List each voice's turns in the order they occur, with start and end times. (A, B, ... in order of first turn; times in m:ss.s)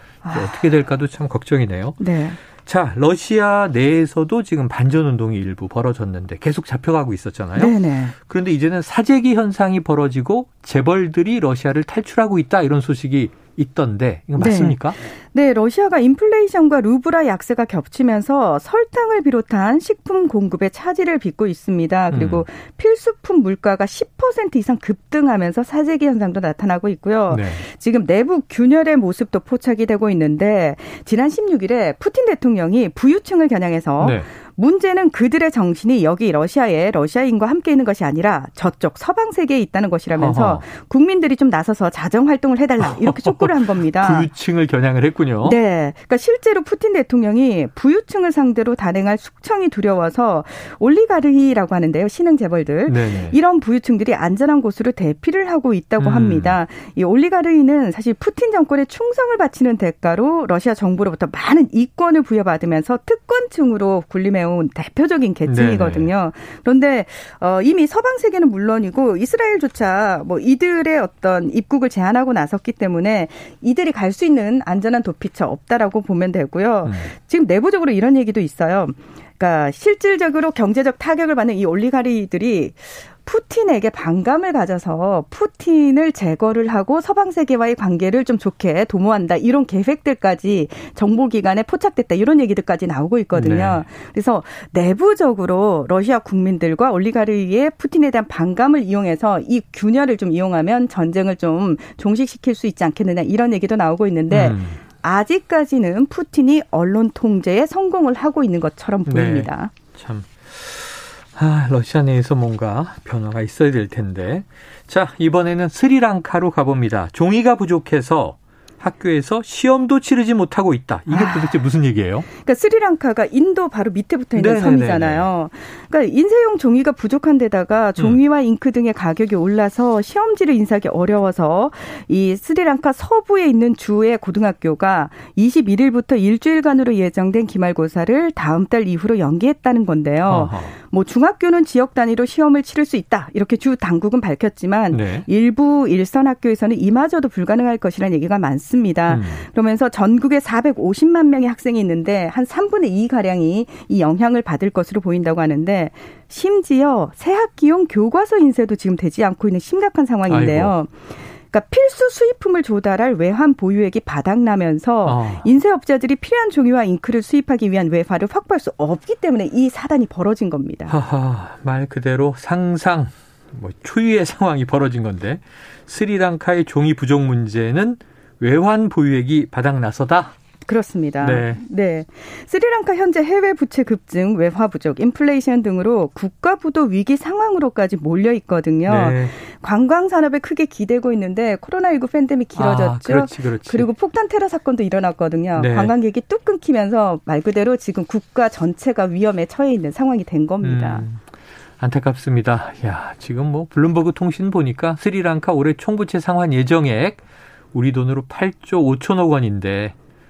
0:00.2-0:00.7 A
0:00.3-0:02.0 B
0:02.0-0:02.4 A
0:02.6-0:15.0 B
0:07.5-0:08.1 A
0:14.4-0:44.3 A
0:22.1-0:22.4 B
0:27.3-0:27.6 B
0:34.0-0:34.3 B
0:40.2-0:40.6 B
0:42.8-0:45.6 B
0:45.4-1:49.7 A
0:52.9-0:53.4 B
0:56.0-0:56.6 B
1:05.5-1:06.1 B
1:16.8-1:17.1 B
1:33.3-1:33.8 B
1:44.3-1:44.8 B
1:49.0-2:02.2 B
2:01.1-2:01.6 A
2:02.3-2:40.9 A
2:04.3-2:05.3 B
2:20.2-2:20.7 B
2:24.9-2:25.3 B
2:29.1-2:29.4 B
2:40.3-2:40.7 B
2:41.5-2:50.9 A
2:45.0-2:45.4 B
2:50.9-3:00.3 B
3:00.6-3:21.0 A
3:01.2-3:01.6 B
3:08.9-3:09.3 B
3:12.6-3:13.9 B
3:15.5-3:15.9 B
3:20.6-3:21.2 B
3:21.8-3:27.2 B
3:27.7-3:29.9 B